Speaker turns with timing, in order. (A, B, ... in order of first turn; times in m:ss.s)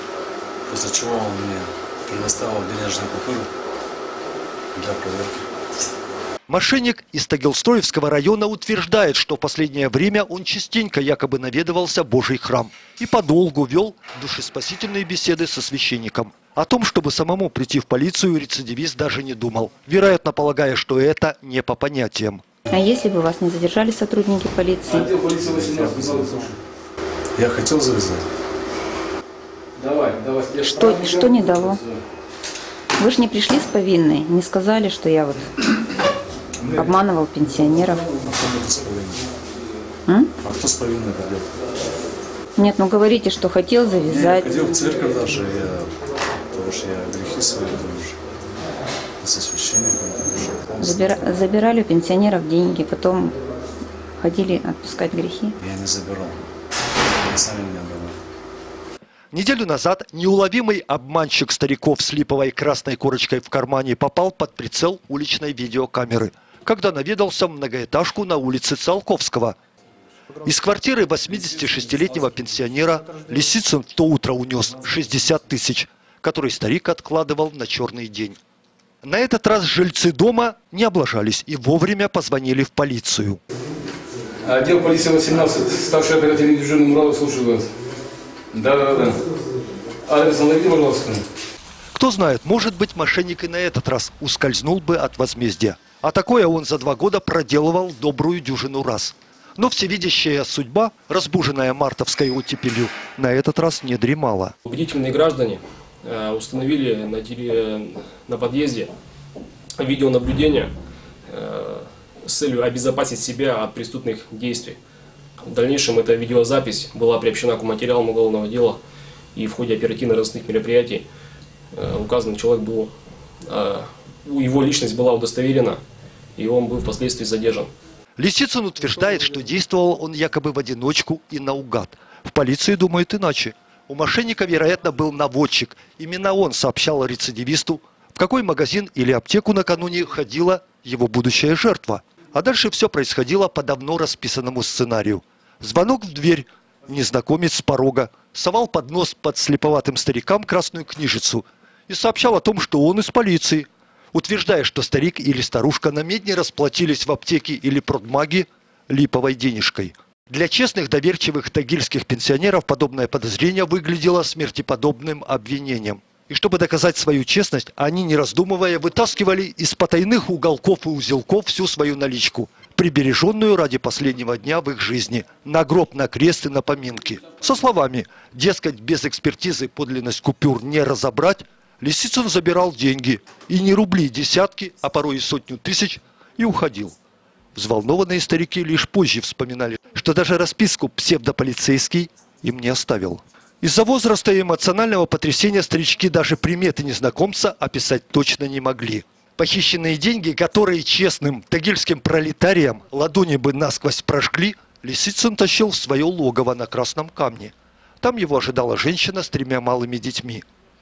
0:00.7-0:03.5 A
0:04.7-0:05.4 A
0:06.5-0:22.4 B
0:22.7-0:25.1 C
0:24.8-0:26.5 D
0:25.4-0:26.6 A
0:27.4-0:28.2 A
0:29.8-0:32.0 D
0:30.6-0:31.8 C
0:33.0-0:35.5 C
0:36.7-0:38.1 C
0:38.1-0:39.2 A
0:40.1-0:40.3 C
0:40.4-0:41.5 A
0:42.6-0:44.5 C
0:44.0-0:45.9 A
0:46.5-0:48.2 A
0:49.2-0:51.2 A
0:50.8-0:53.4 C
0:54.2-0:55.6 C
0:55.6-0:56.4 A
0:57.2-0:58.2 A
0:59.3-1:09.6 B
1:10.4-1:18.4 B
1:19.0-1:23.4 B
1:24.4-1:27.7 D
1:28.5-1:29.2 D
1:30.0-1:31.2 D
1:31.9-1:44.5 B
1:44.6-1:48.9 E
1:49.8-1:50.7 E
1:51.3-1:54.8 E
1:55.4-1:58.8 E
1:59.3-2:01.0 E
2:01.7-2:02.9 E
2:03.4-2:05.8 E
2:06.4-2:07.7 E
2:08.2-3:07.0 B
3:07.5-3:30.4 B